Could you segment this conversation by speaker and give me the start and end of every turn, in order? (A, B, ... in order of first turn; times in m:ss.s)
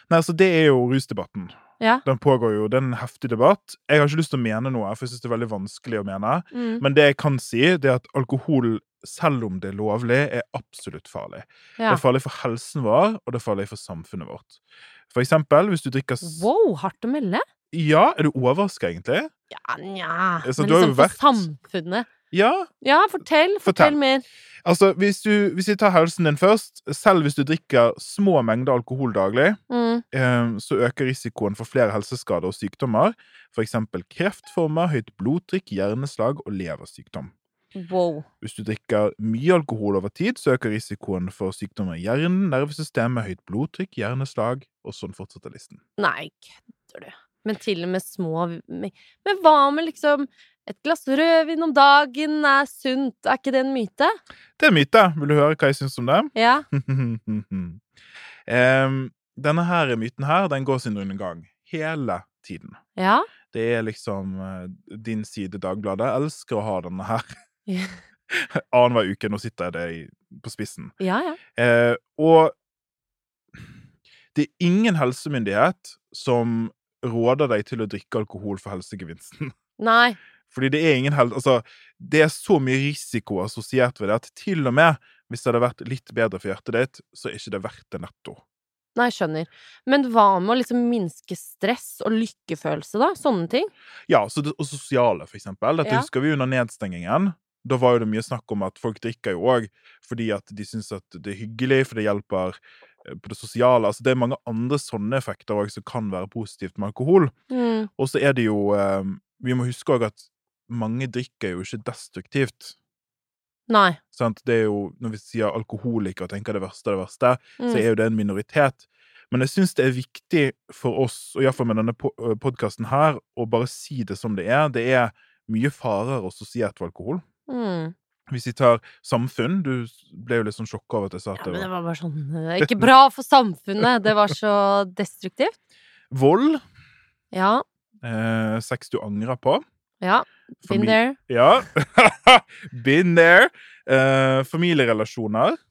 0:00.1-0:14.6 A
0:06.5-0:06.8 B
0:15.1-0:16.5 A
0:16.2-0:17.4 B
0:17.7-0:19.3 A
0:19.5-0:22.1 B
0:20.4-0:21.5 A
0:22.3-0:22.7 A
0:22.8-0:24.2 B
0:23.6-0:24.0 A
0:24.6-0:29.6 A
0:29.7-0:30.0 B
0:30.1-0:37.3 A
0:37.8-0:38.3 B
0:38.4-0:45.8 A
0:46.0-0:54.2 B
0:54.6-0:57.8 A
0:56.4-0:56.7 B
0:58.5-1:02.8 A
1:03.0-1:03.3 B
1:03.5-1:07.3 A
1:07.7-1:08.0 B
1:08.3-1:11.0 A
1:11.0-1:11.4 B
1:11.6-1:12.5 A
1:14.3-1:19.5 A
1:19.8-1:20.2 B
1:20.5-1:28.4 A
1:29.0-1:33.7 B
1:34.1-1:47.3 A
1:35.8-1:36.1 B
1:47.5-1:47.9 B
1:48.0-1:52.8 A
1:53.7-1:54.0 B
1:54.1-2:07.2 A
1:57.6-1:57.8 B
2:07.5-2:07.9 B
2:08.3-2:11.7 A
2:11.4-2:15.6 B
2:12.6-2:12.8 A
2:16.1-2:16.6 A
2:17.3-2:17.6 B
2:18.0-2:19.6 A
2:20.0-2:21.2 B
2:20.6-2:25.6 A